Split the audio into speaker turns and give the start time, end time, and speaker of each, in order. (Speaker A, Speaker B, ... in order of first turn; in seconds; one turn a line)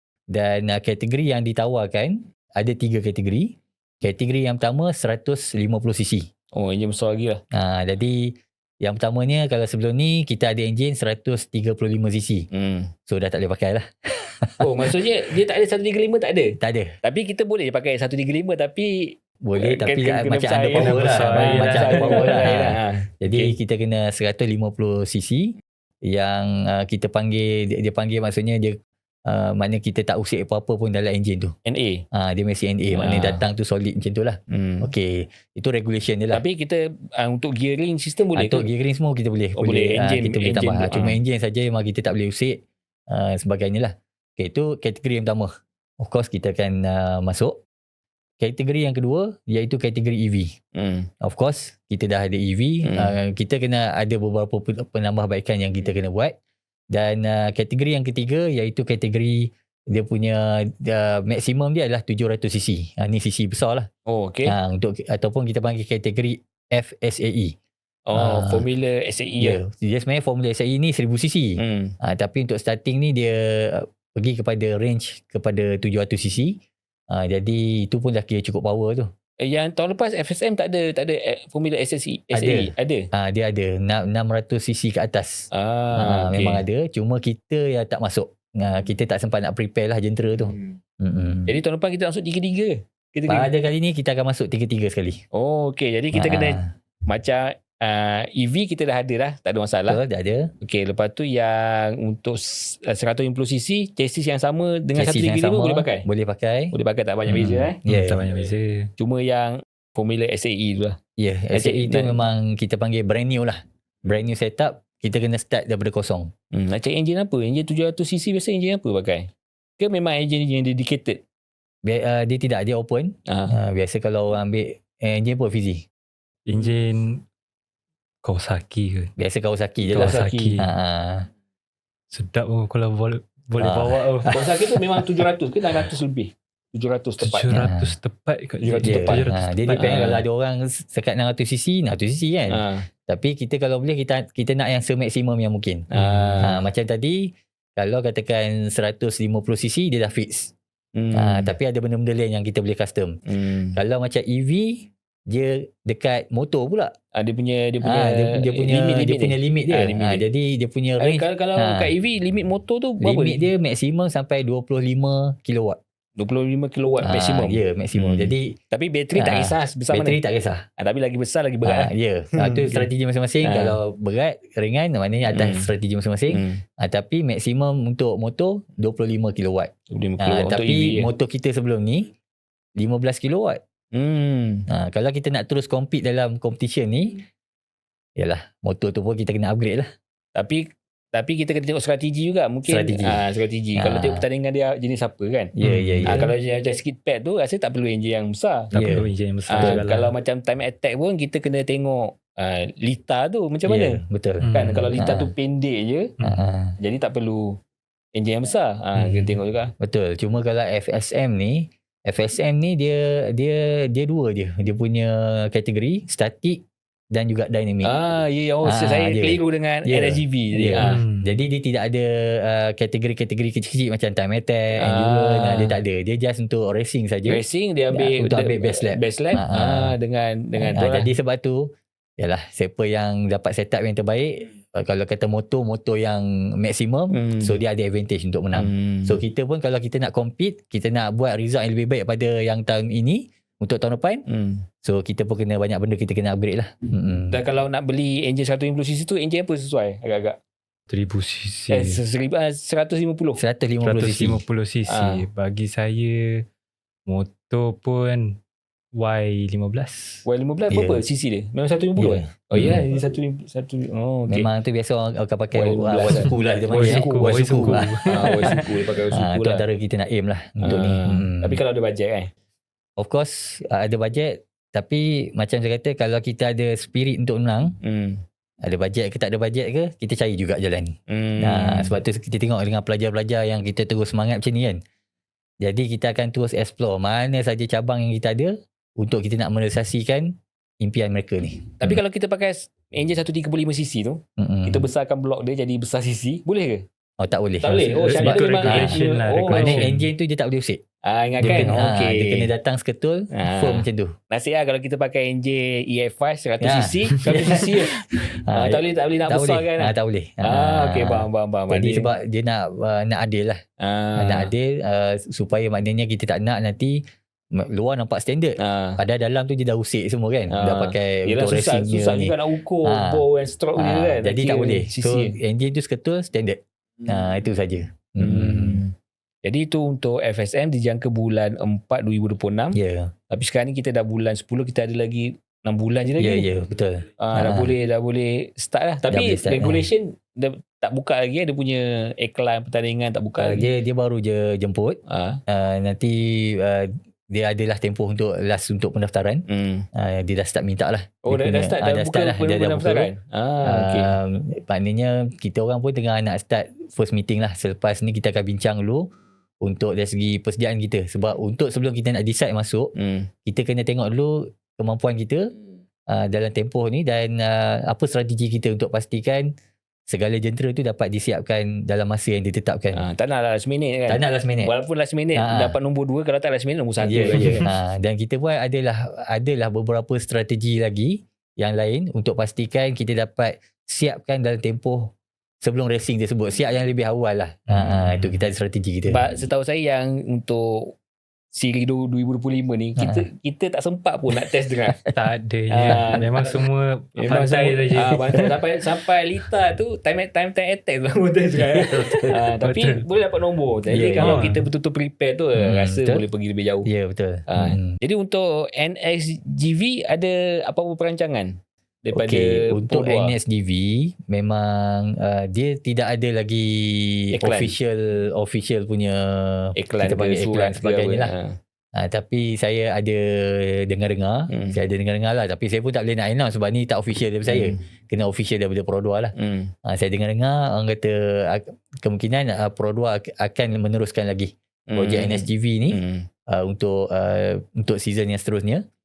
Speaker A: 0.3-6.3
Speaker B: 6.5-7.4
Speaker A: 7.5-12.5
Speaker B: 12.5-12.9
Speaker A: 13.1-14.9
Speaker B: 14.6-23.5
Speaker A: 16.6-16.9
Speaker A: 19.4-31.5
Speaker C: 20.7-22.5
Speaker B: 31.6-32.0
Speaker A: 32.1-36.4
Speaker B: 32.9-33.4
Speaker B: 34.5-34.9
Speaker B: 36.3-38.6
Speaker A: 38.4-47.6
Speaker B: 39.5-41.2
Speaker A: 48.4-50.5
Speaker B: 50.7-51.1
Speaker A: 51.2-56.4
Speaker B: 52.8-53.1
Speaker A: 56.9-63.9
Speaker B: 64.1-64.5
Speaker A: 64.5-67.5
Speaker B: 68.1-69.6
Speaker A: 68.1-68.7
Speaker A: 69.4-79.1
Speaker B: 71.6-72.0
Speaker B: 79.4-83.1
Speaker A: 82.3-91.5
Speaker B: 85.5-86.6
Speaker B: 91.5-93.5
Speaker A: 93.3-95.2
Speaker B: 95.3-100.0
Speaker A: 96.1-96.7
Speaker A: 99.9-100.5
Speaker B: 100.6-106.1
Speaker A: 104.9-106.7
Speaker B: 106.7-107.8
Speaker A: 107.3-108.2
Speaker C: 107.8-108.9
Speaker B: 109.0-111.0
Speaker A: 111.2-116.3
Speaker B: 111.5-112.2
Speaker B: 116.5-121.2
Speaker A: 121.8-125.8
Speaker B: 123.3-123.5
Speaker C: 126.5-127.2
Speaker C: 128.2-129.1
Speaker A: 129.2-131.3
Speaker C: 129.9-130.7
Speaker B: 129.9-130.6
Speaker C: 132.1-134.3
Speaker A: 133.6-135.2
Speaker B: 134.3-137.6
Speaker C: 137.2-139.9
Speaker A: 137.5-137.9
Speaker B: 138.6-140.2
Speaker A: 138.8-145.9
Speaker B: 142.5-142.9
Speaker B: 145.9-146.6
Speaker C: 146.0-146.4
Speaker A: 146.4-150.5
Speaker B: 151.0-151.5
Speaker A: 151.1-153.2
Speaker B: 153.3-153.8
Speaker A: 153.8-156.9
Speaker B: 157.1-160.2
Speaker A: 157.8-161.9
Speaker B: 161.0-163.5
Speaker A: 163.0-165.8
Speaker B: 166.2-170.2
Speaker A: 167.0-168.6
Speaker A: 169.1-170.7
Speaker B: 170.8-172.9
Speaker A: 171.6-182.1
Speaker B: 173.4-173.8
Speaker B: 175.3-175.7
Speaker B: 176.3-176.6
Speaker B: 179.9-181.1
Speaker A: 182.8-183.6
Speaker B: 183.9-184.7
Speaker A: 184.7-187.2
Speaker A: 188.2-189.9
Speaker B: 190.3-195.5
Speaker A: 192.7-193.2
Speaker A: 193.8-194.2
Speaker A: 195.6-196.3
Speaker C: 195.6-196.2
Speaker B: 196.1-198.7
Speaker C: 198.7-200.1
Speaker A: 198.7-199.1
Speaker B: 199.5-206.1
Speaker A: 203.7-205.3
Speaker C: 204.4-205.0
Speaker A: 206.2-206.8
Speaker B: 206.8-207.6
Speaker B: 208.2-209.7
Speaker A: 209.8-217.9
Speaker B: 217.8-221.0
Speaker A: 218.6-229.9
Speaker C: 220.8-221.3
Speaker B: 224.8-225.8
Speaker B: 227.2-231.1
Speaker A: 230.6-244.2
Speaker B: 237.1-237.6
Speaker B: 238.5-239.2
Speaker B: 244.3-244.6
Speaker A: 244.8-247.4
Speaker B: 247.3-250.4
Speaker C: 250.9-252.0
Speaker B: 251.7-253.4
Speaker A: 253.4-254.4
Speaker C: 253.8-256.4
Speaker B: 254.9-255.2
Speaker C: 257.1-258.4
Speaker C: 258.9-260.2
Speaker B: 260.2-264.5
Speaker A: 260.7-261.0
Speaker A: 262.0-262.8
Speaker A: 264.3-271.6
Speaker B: 265.5-269.6
Speaker C: 266.7-268.6
Speaker B: 270.6-272.3
Speaker A: 273.0-277.8
Speaker B: 277.8-278.2
Speaker A: 278.6-284.8
Speaker B: 281.1-281.9
Speaker A: 285.6-292.0
Speaker B: 291.8-296.8
Speaker A: 294.4-294.9
Speaker A: 297.2-300.8
Speaker B: 297.6-299.9
Speaker C: 298.1-300.0
Speaker B: 301.0-302.5
Speaker A: 301.4-304.1
Speaker C: 301.4-301.7
Speaker B: 303.3-312.1
Speaker A: 306.6-313.6
Speaker B: 313.8-314.5
Speaker A: 314.2-328.8
Speaker B: 318.6-319.0
Speaker B: 320.5-325.4
Speaker B: 328.2-328.9
Speaker B: 329.4-332.8
Speaker A: 332.7-333.1
Speaker B: 333.3-336.5
Speaker A: 336.2-337.8
Speaker B: 337.2-343.7
Speaker A: 339.1-339.9
Speaker A: 343.4-353.1
Speaker B: 345.1-345.4
Speaker B: 349.5-349.9
Speaker B: 351.2-354.1
Speaker A: 353.6-359.1
Speaker A: 359.6-362.9
Speaker B: 362.9-363.3
Speaker A: 363.4-365.5
Speaker A: 366.1-369.5
Speaker A: 370.1-373.0
Speaker B: 372.9-377.6
Speaker A: 374.1-374.7
Speaker A: 375.4-375.7
Speaker A: 377.0-389.2
Speaker C: 387.7-388.4
Speaker B: 389.1-391.0
Speaker B: 391.5-395.0
Speaker A: 393.0-393.2
Speaker C: 395.1-398.5
Speaker B: 395.7-396.5
Speaker B: 397.2-406.9
Speaker A: 401.9-402.3
Speaker C: 402.6-403.0
Speaker A: 403.9-404.5
Speaker C: 404.2-404.6
Speaker A: 405.6-406.2
Speaker A: 406.8-408.0
Speaker B: 407.5-411.5
Speaker B: 412.1-413.4
Speaker A: 412.1-421.3
Speaker B: 417.3-417.7
Speaker B: 419.8-421.6
Speaker A: 421.9-429.3
Speaker B: 424.5-424.8
Speaker B: 427.5-427.8
Speaker B: 429.4-429.7
Speaker A: 429.8-438.8
Speaker B: 434.9-436.3